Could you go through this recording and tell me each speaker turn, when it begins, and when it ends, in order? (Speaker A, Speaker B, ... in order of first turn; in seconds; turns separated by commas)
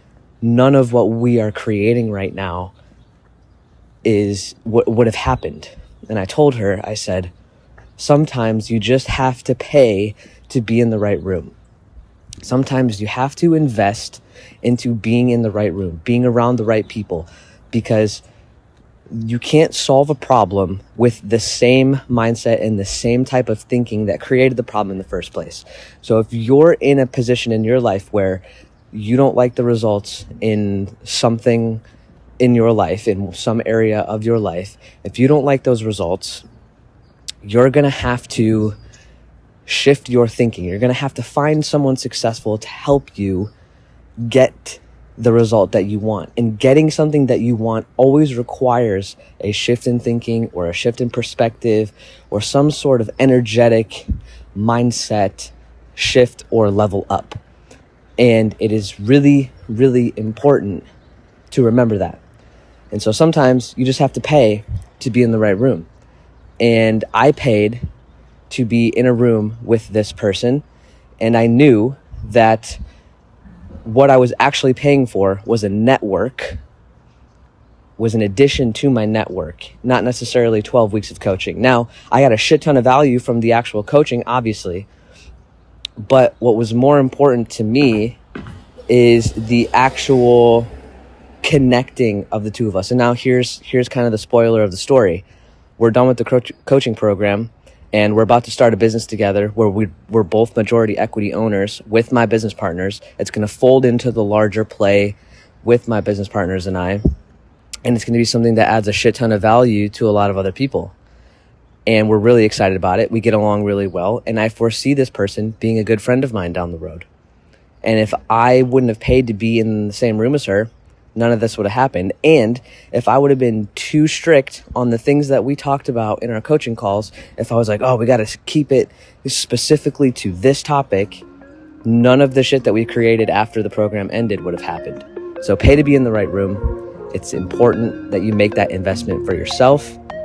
Speaker A: 0.4-2.7, Speaker A: 4.0-7.3, Speaker A: 8.0-11.5, Speaker A: 12.4-18.2, Speaker A: 19.1-31.8, Speaker A: 32.4-36.4, Speaker A: 37.4-38.8, Speaker A: 39.6-43.5, Speaker A: 44.2-57.4, Speaker A: 58.2-60.9, Speaker A: 61.5-62.2, Speaker A: 62.9-65.9, Speaker A: 66.6-67.8, Speaker A: 68.5-70.6, Speaker A: 71.2-72.8, Speaker A: 73.8-76.6, Speaker A: 78.0-84.9, Speaker A: 86.0-88.2, Speaker A: 88.9-90.7, Speaker A: 91.4-95.2, Speaker A: 95.8-107.0, Speaker A: 107.8-110.9, Speaker A: 111.8-117.1, Speaker A: 117.8-131.2, Speaker A: 131.8-140.0